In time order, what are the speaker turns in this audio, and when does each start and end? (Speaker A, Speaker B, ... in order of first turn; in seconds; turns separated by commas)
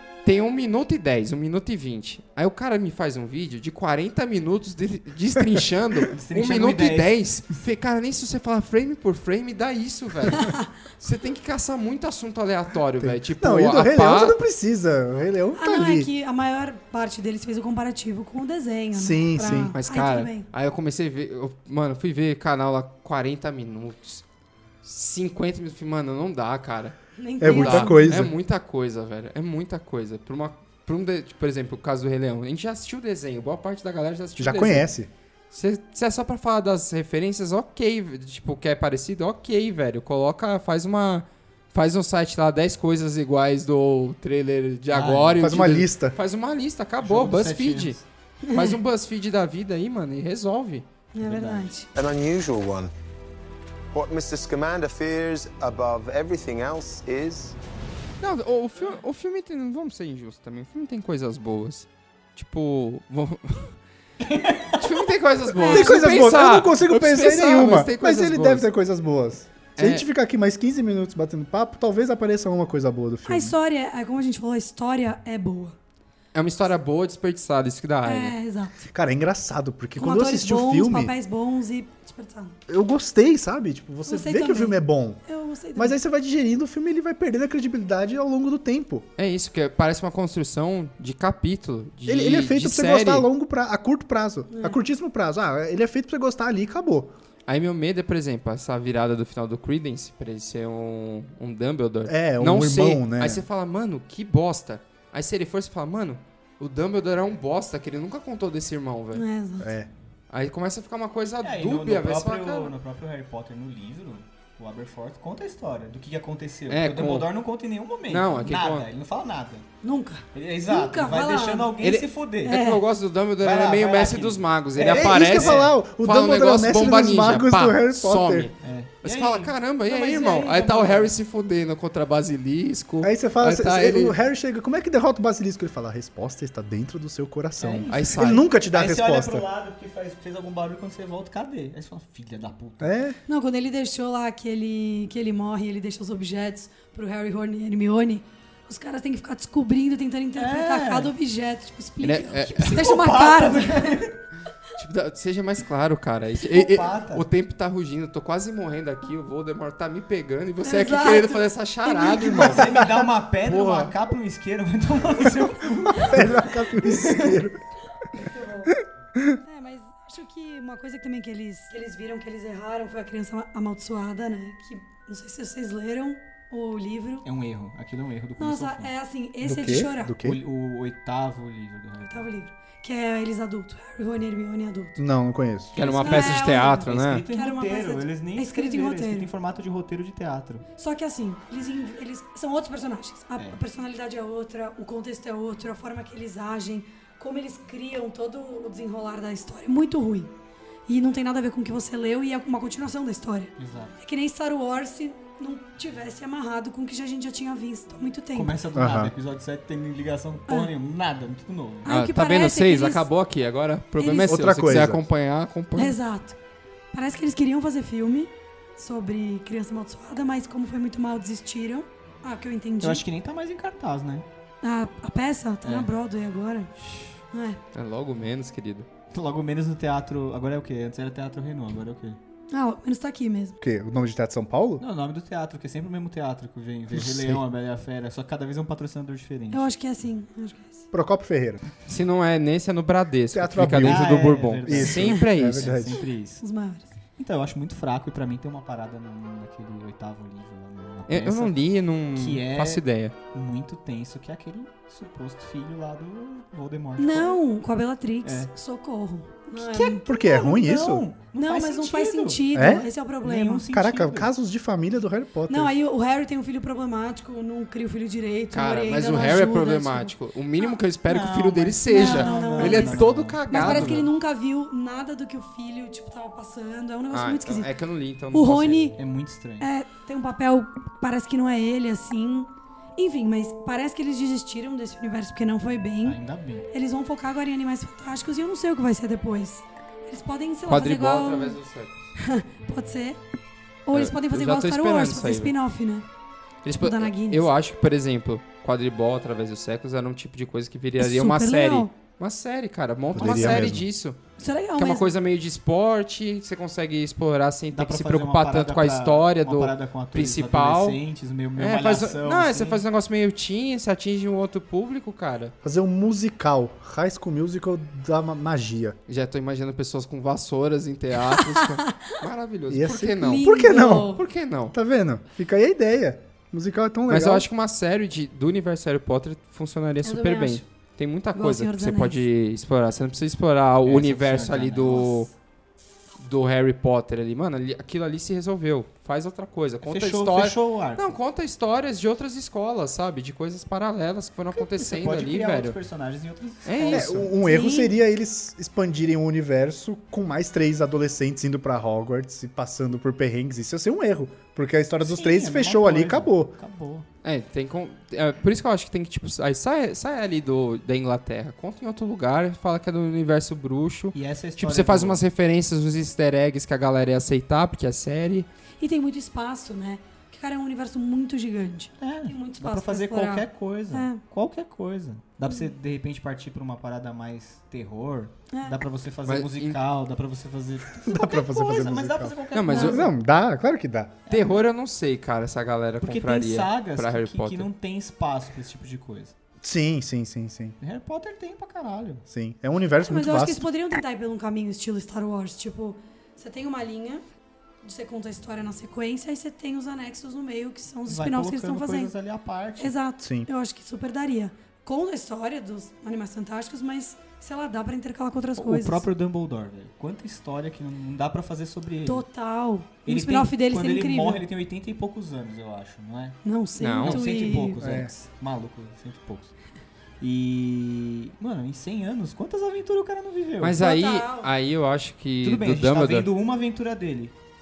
Speaker A: 0.2-14.4, Speaker B: 6.1-7.2, Speaker C: 10.3-10.6, Speaker D: 13.0-16.1, Speaker C: 15.6-20.4, Speaker D: 18.9-19.7, Speaker A: 19.5-24.2, Speaker A: 24.8-34.9, Speaker C: 27.2-28.2, Speaker D: 27.4-28.3, Speaker D: 34.4-35.1, Speaker A: 35.5-48.0, Speaker B: 44.9-45.5, Speaker D: 45.4-46.1, Speaker B: 47.0-48.0, Speaker A: 48.5-50.8, Speaker C: 48.5-48.8, Speaker C: 51.1-51.9, Speaker B: 51.2-51.7, Speaker E: 51.9-52.9, Speaker E: 53.9-57.5, Speaker A: 58.2-63.8, Speaker B: 64.2-64.9, Speaker A: 64.7-68.7, Speaker C: 65.5-66.3, Speaker D: 65.6-73.5, Speaker A: 69.8-70.0, Speaker C: 73.3-75.7, Speaker A: 76.3-78.3, Speaker C: 78.0-78.9, Speaker D: 78.9-81.1, Speaker C: 80.0-82.5, Speaker D: 82.7-85.2, Speaker C: 84.0-86.0, Speaker D: 85.8-89.0, Speaker A: 89.2-93.3, Speaker D: 92.1-97.1, Speaker C: 94.5-94.8, Speaker A: 97.5-109.2, Speaker D: 102.0-103.4, Speaker C: 109.1-109.7, Speaker D: 109.6-109.9, Speaker A: 110.3-112.7, Speaker B: 111.4-119.7, Speaker A: 116.7-117.3, Speaker A: 118.1-118.9, Speaker C: 119.8-121.7, Speaker B: 120.3-122.6, Speaker A: 121.8-134.2, Speaker C: 122.5-122.8, Speaker B: 123.4-125.7, Speaker D: 124.8-128.5, Speaker B: 128.6-131.1, Speaker D: 133.0-139.5, Speaker B: 137.6-142.9, Speaker A: 137.9-138.4, Speaker D: 142.8-143.2, Speaker C: 143.3-154.1, Speaker B: 150.4-151.1, Speaker A: 152.0-152.8, Speaker B: 152.6-154.2, Speaker A: 154.8-162.7, Speaker B: 156.4-157.3, Speaker C: 160.6-162.6, Speaker B: 162.3-167.4, Speaker D: 162.6-162.9, Speaker A: 163.5-163.9, Speaker D: 165.9-167.6, Speaker C: 168.1-168.7, Speaker C: 169.4-177.3, Speaker B: 177.2-178.9, Speaker C: 178.4-180.1, Speaker D: 179.4-180.4, Speaker B: 180.1-182.3, Speaker C: 182.0-185.0, Speaker D: 185.0-185.8, Speaker B: 185.7-190.6, Speaker A: 185.8-187.2, Speaker C: 186.0-189.3, Speaker C: 190.8-200.3, Speaker C: 200.9-208.6, Speaker B: 203.6-203.9, Speaker B: 208.3-211.9, Speaker D: 208.7-209.1, Speaker C: 211.9-213.1, Speaker A: 211.9-216.0, Speaker C: 214.0-214.4, Speaker D: 214.2-215.0, Speaker C: 215.8-216.4, Speaker C: 216.9-223.0, Speaker B: 222.8-224.3, Speaker C: 224.6-226.7, Speaker B: 225.6-225.9, Speaker B: 226.8-227.1, Speaker C: 227.3-227.6, Speaker A: 227.7-228.9, Speaker B: 229.1-232.2, Speaker C: 232.5-233.6, Speaker D: 233.6-234.8, Speaker B: 234.8-239.7, Speaker D: 236.9-237.4, Speaker C: 239.5-240.9, Speaker D: 240.9-241.6, Speaker A: 241.9-245.8, Speaker D: 243.3-246.0, Speaker B: 243.8-246.4, Speaker C: 246.4-246.9, Speaker B: 247.2-251.6, Speaker A: 251.1-253.1, Speaker B: 252.1-257.4, Speaker C: 257.0-260.4, Speaker B: 258.2-258.5, Speaker B: 259.6-264.3, Speaker D: 260.0-261.1, Speaker C: 261.4-263.7, Speaker D: 262.5-262.9, Speaker D: 263.7-265.7, Speaker C: 265.5-270.8, Speaker A: 268.5-274.1, Speaker B: 271.1-274.1, Speaker C: 271.9-277.7, Speaker A: 277.1-278.9, Speaker C: 278.3-279.0, Speaker B: 279.0-279.7, Speaker C: 279.6-286.2, Speaker B: 286.0-286.7, Speaker C: 286.7-291.6, Speaker A: 290.7-291.9, Speaker C: 292.2-293.2, Speaker C: 293.9-296.1, Speaker A: 293.9-295.5, Speaker A: 296.6-304.2, Speaker C: 296.8-297.5, Speaker C: 301.0-301.9, Speaker D: 303.1-303.8, Speaker C: 304.4-305.1, Speaker A: 304.8-311.0, Speaker B: 307.7-312.8, Speaker A: 311.6-315.5, Speaker D: 315.6-318.9, Speaker A: 319.1-323.5, Speaker D: 322.7-324.2, Speaker C: 323.1-324.3, Speaker A: 324.1-324.7, Speaker D: 324.7-327.4, Speaker A: 327.1-335.3, Speaker C: 330.0-330.6, Speaker C: 331.3-332.2, Speaker B: 333.8-335.2, Speaker A: 336.2-345.8, Speaker B: 339.9-341.1, Speaker B: 344.5-347.3, Speaker A: 346.6-347.1, Speaker D: 346.9-356.5, Speaker C: 347.4-347.9, Speaker B: 355.0-357.1, Speaker A: 357.2-368.5, Speaker B: 364.1-365.2, Speaker C: 368.8-374.2, Speaker B: 372.0-383.1, Speaker C: 378.5-378.8, Speaker A: 379.3-379.8, Speaker D: 381.0-382.4, Speaker A: 382.5-383.1, Speaker C: 382.7-383.0, Speaker D: 382.9-384.1, Speaker B: 384.3-384.7, Speaker A: 384.3-387.7, Speaker B: 386.0-389.3, Speaker D: 389.6-390.8, Speaker B: 390.8-392.2, Speaker D: 392.3-393.7, Speaker C: 393.0-397.2, Speaker C: 397.8-402.1, Speaker B: 401.1-402.9, Speaker C: 402.8-409.1, Speaker D: 403.2-403.5, Speaker B: 408.6-412.3, Speaker C: 412.1-414.4, Speaker B: 413.1-416.4, Speaker C: 416.4-417.8, Speaker A: 416.8-417.2, Speaker B: 417.0-419.6, Speaker D: 417.8-418.1, Speaker B: 420.2-423.8, Speaker A: 423.6-426.3, Speaker C: 423.8-424.5, Speaker B: 425.4-427.3